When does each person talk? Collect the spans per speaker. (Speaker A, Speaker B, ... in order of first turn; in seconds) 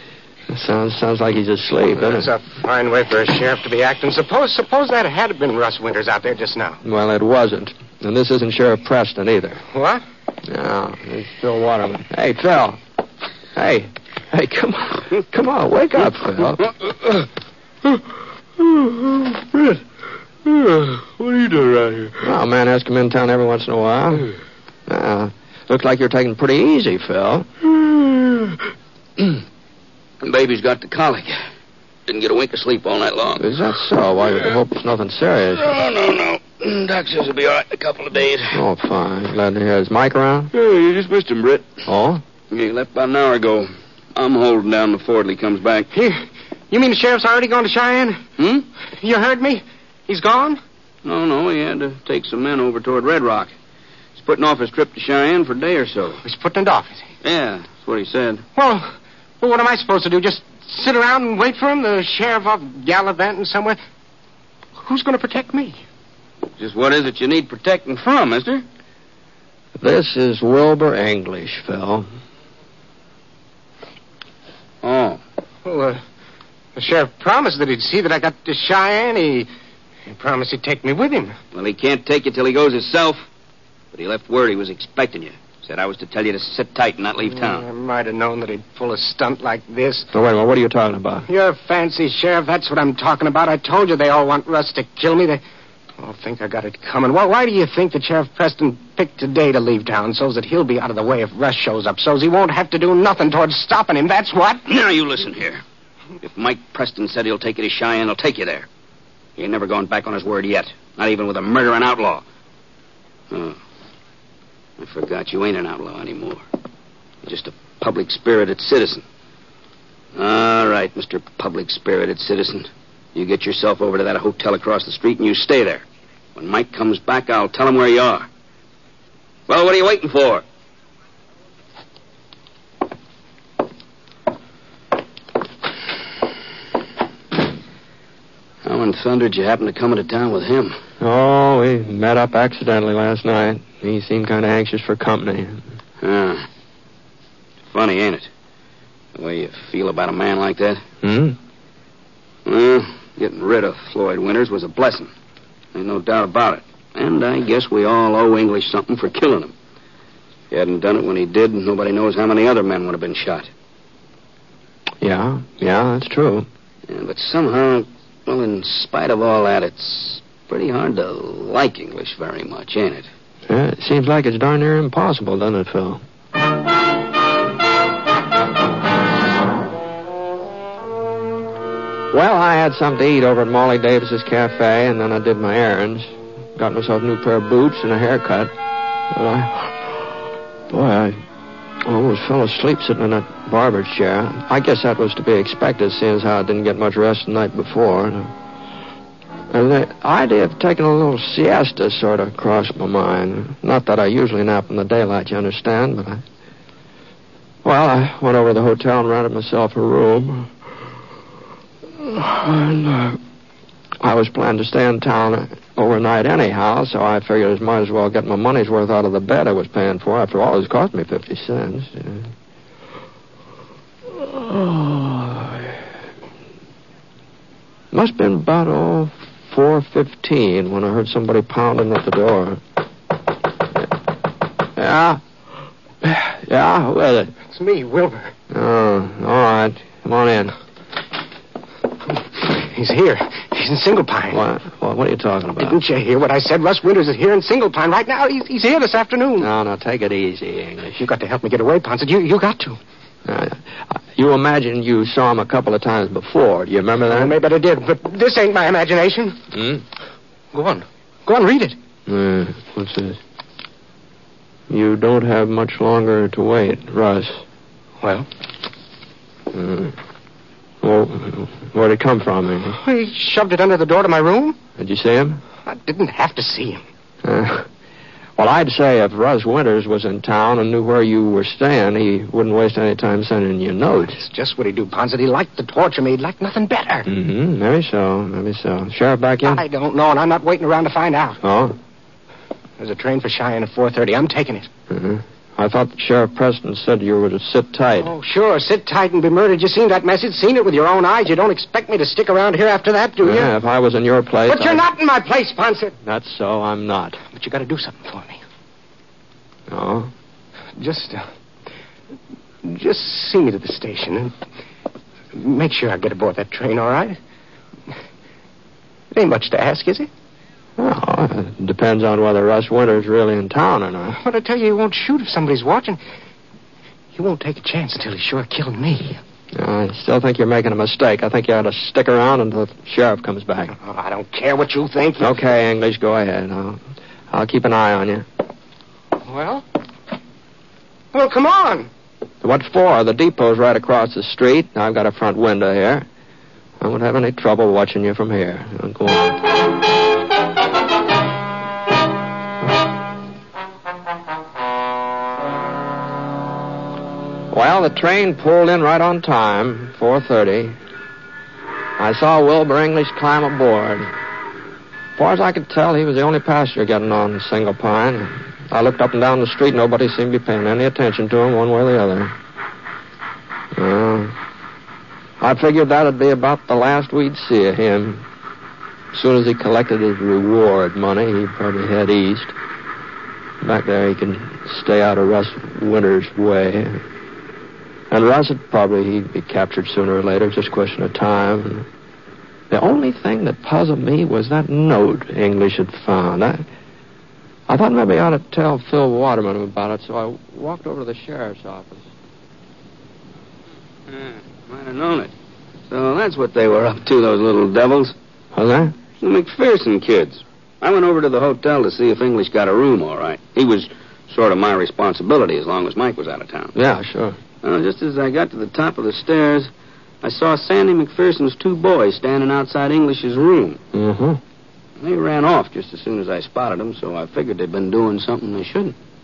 Speaker A: 0.5-2.3, 6.8-9.6, 10.4-12.8, 13.5-16.7, 22.2-24.3, 24.9-28.5, 33.4-35.7, 38.5-40.5, 41.9-42.2, 69.8-72.1, 90.1-91.3, 141.0-145.7, 151.0-151.4, 165.0-166.5, 173.5-176.0, 182.1-188.5, 189.1-191.2, 191.8-198.3, 199.5-206.2, 207.6-210.6, 211.9-213.2, 214.0-222.3, 224.1-225.7, 227.9-232.6, 234.7-235.2, 236.0-237.3, 238.5-240.5, 244.3-245.8, 249.4-251.0, 253.2-257.4, 259.5-259.8, 262.1-263.2, 264.7-267.4, 269.5-270.0, 270.8-272.8, 274.8-275.4, 277.2-277.7, 278.4-284.2, 287.1-289.6, 291.4-291.8, 294.9-298.1, 303.2-304.8, 306.0-307.2, 309.7-310.1, 320.8-324.2, 329.5-333.7, 335.2-338.2, 342.4-346.1, 346.8-349.4, 357.5-360.8, 362.0-364.1, 365.1-372.3, 373.7-374.4, 375.4-378.2, 379.1-382.5, 383.6-387.0, 388.1-391.9, 392.7-396.6, 397.7-402.1, 408.5-409.0, 416.7-417.4, 423.9-424.4
Speaker B: 2.0-6.8, 9.7-10.0, 45.9-48.2, 48.9-50.6, 56.2-57.1, 58.5-63.8, 64.8-65.8, 75.6-76.0, 76.8-79.5, 80.1-81.4, 87.4-90.1, 91.3-95.4, 96.0-104.6, 237.5-238.3, 242.4-244.4, 245.6-249.5, 251.0-252.8, 257.1-259.4, 260.5-261.8, 268.0-268.3, 272.8-274.6, 275.6-276.8, 283.9-287.1, 289.4-291.4, 292.8-294.7, 298.0-303.5, 304.5-305.9, 307.3-308.4, 310.8-311.2, 312.6-314.3, 315.3-317.2, 319.1-320.1, 324.2-326.0, 327.1-329.2, 333.7-335.4, 339.2-339.6, 341.1-341.9
Speaker C: 20.5-22.2, 30.2-31.4, 32.1-33.5, 35.6-38.6, 40.5-41.8, 42.5-45.9, 48.4-48.6, 51.0-53.5, 54.1-56.2, 57.2-58.4, 66.6-68.6, 74.8-75.2, 81.5-83.3, 83.9-87.7, 104.7-105.6, 106.2-108.7, 109.4-112.2, 113.3-113.6, 114.8-116.4, 117.2-119.0, 120.2-125.8, 126.3-128.3, 129.5-130.4, 138.6-140.8, 146.0-146.5, 147.7-148.3, 149.1-150.8, 152.4-155.1, 155.7-159.5, 160.5-163.5, 166.9-173.1, 404.1-405.3, 405.9-408.1, 409.2-416.7, 417.6-419.7, 420.2-423.8, 425.0-428.9